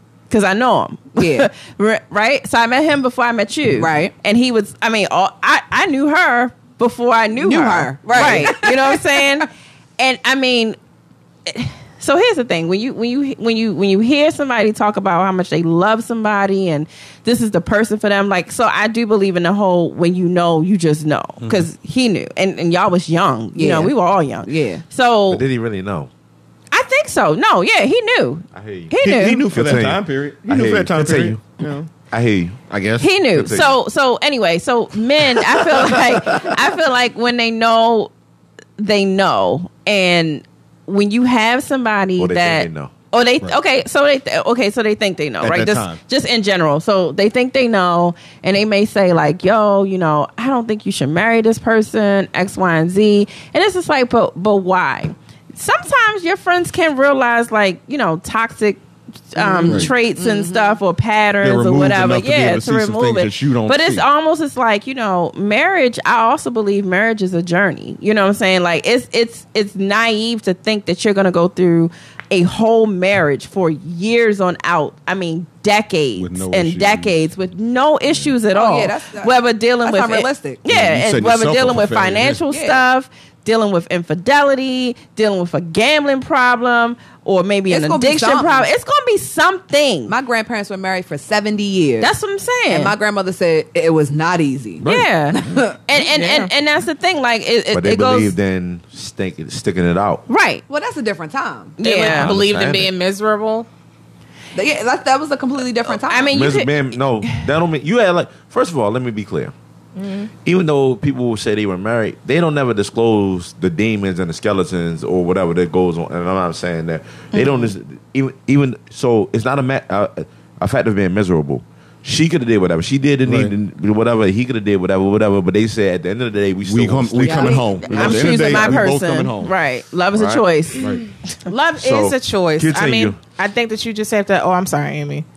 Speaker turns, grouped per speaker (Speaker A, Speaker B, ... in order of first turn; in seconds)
Speaker A: 0.3-10.8, 11.4-25.4, 26.7-29.5, 33.0-38.1, 38.8-90.1, 92.0-92.9, 94.8-98.3, 100.3-100.6, 101.8-102.3, 106.1-107.4, 127.8-130.9
Speaker B: 1.2-1.5, 3.8-4.1, 7.4-9.2, 23.5-24.8, 59.4-60.8, 78.5-80.6, 82.5-82.8, 87.7-88.7, 90.1-92.1, 92.7-95.8, 100.7-101.8, 104.5-106.4, 127.2-127.9
Speaker C: 21.4-21.6, 29.0-31.9, 32.7-33.1, 45.4-46.0, 59.6-59.9, 61.4-64.0, 76.2-77.2, 80.7-82.4, 94.8-95.1, 123.2-123.5, 126.6-129.5
Speaker D: 25.3-26.1, 28.5-28.9, 29.5-31.4, 32.1-32.7, 33.3-33.7, 42.2-42.9, 97.7-100.2, 102.1-102.9, 106.3-109.5, 110.4-128.9, 130.1-130.4, 131.8-133.2
Speaker E: 101.8-103.7, 110.0-110.3, 131.5-135.2